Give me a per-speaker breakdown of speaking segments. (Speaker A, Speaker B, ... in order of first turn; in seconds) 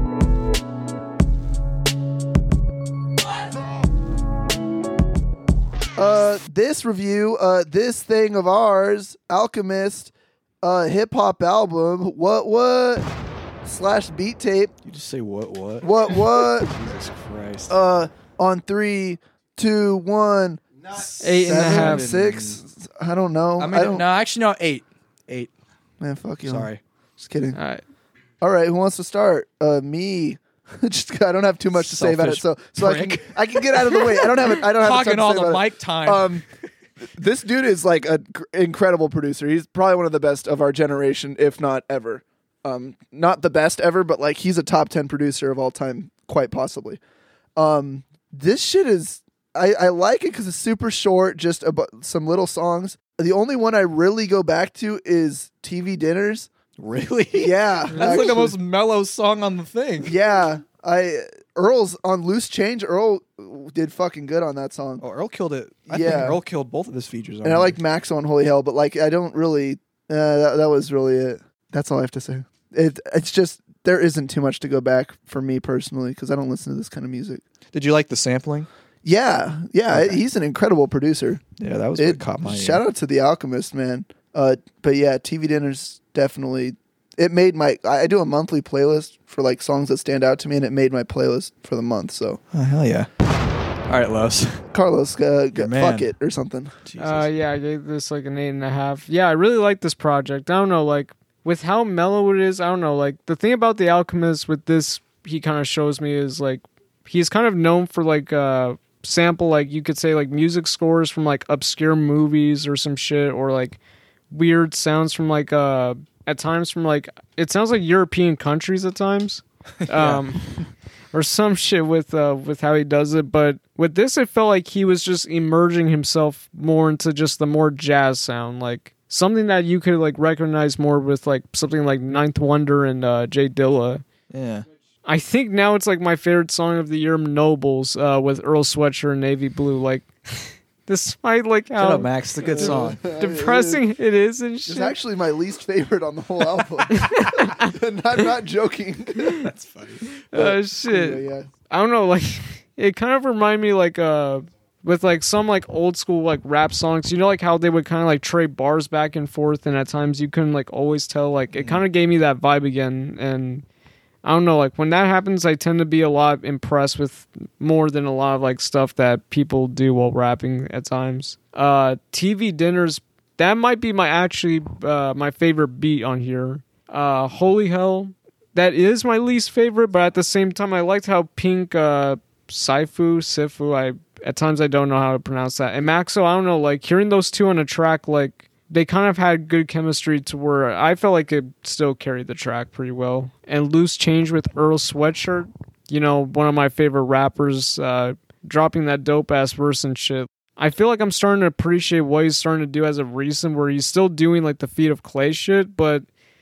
Speaker A: 6.0-13.1, 13.6-14.7, 15.8-16.7, 17.7-20.6, 21.4-24.1, 26.0-27.6, 28.4-36.4, 37.2-47.0, 47.6-56.5, 57.4-58.6, 60.0-65.0, 65.9-66.4, 67.4-77.4, 79.0-81.4, 82.0-92.4, 94.7-96.8, 142.5-143.8, 144.7-149.4, 150.3-151.5
Speaker B: 14.8-17.7, 20.9-22.6, 23.6-25.5, 26.4-26.8, 31.7-36.4, 56.8-60.2, 65.0-67.8, 77.7-78.7, 79.9-80.2, 81.6-82.8, 92.5-93.1, 93.9-94.6, 95.5-96.1, 96.8-97.3, 119.8-120.3, 134.3-134.7, 141.8-143.0, 149.4-150.1, 161.5-161.8
Speaker C: 21.2-22.1, 27.5-27.8, 97.0-113.8, 114.3-120.5, 121.1-134.0, 135.1-145.0, 146.9-147.6, 150.2-163.7, 164.2-206.1